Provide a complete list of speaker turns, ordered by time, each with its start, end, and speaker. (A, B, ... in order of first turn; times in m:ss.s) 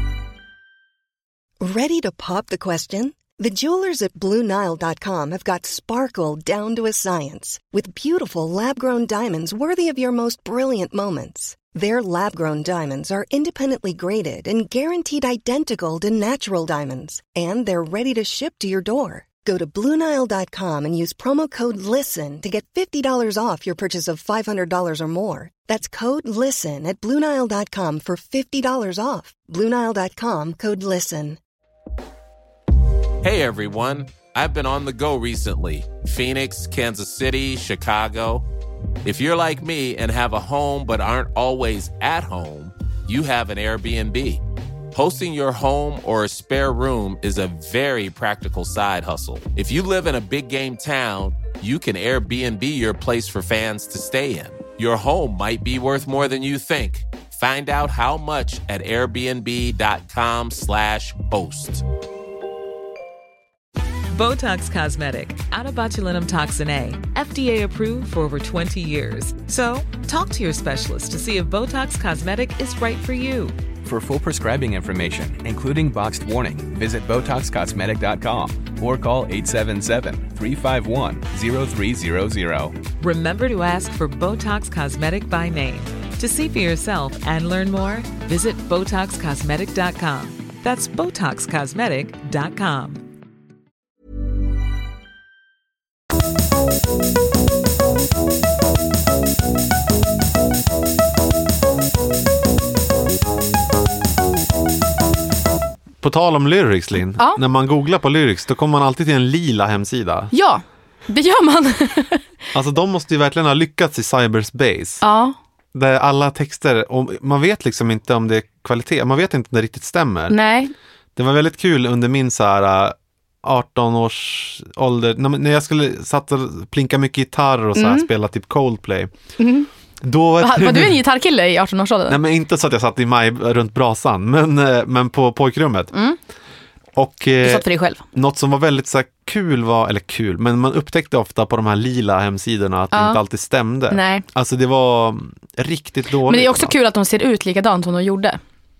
0:01.6-0:31.4 A
0:33.2-0:38.5 B
0:39.0-1:01.8 B
1:04.1-1:13.6 C
1:13.8-1:22.8 D
1:23.0-1:33.0 C
1:46.0-1:50.3 E
1:50.3-1:52.2 F
1:52.5-1:55.0 E
1:55.0-1:55.3 F
1:55.7-2:00.4 E
2:00.3-2:00.7 F
2:01.2-2:09.1 E
2:07.8-2:08.1 F
2:09.4-2:09.7 F
2:10.0-2:11.0 E
2:10.4-2:12.2 F
2:12.1-2:15.9 E
2:15.9-2:16.2 F
2:16.9-2:26.7 E
2:17.4-2:18.0 F
2:22.9-2:23.2 F
2:23.9-2:24.2 F
2:26.3-2:28.4 F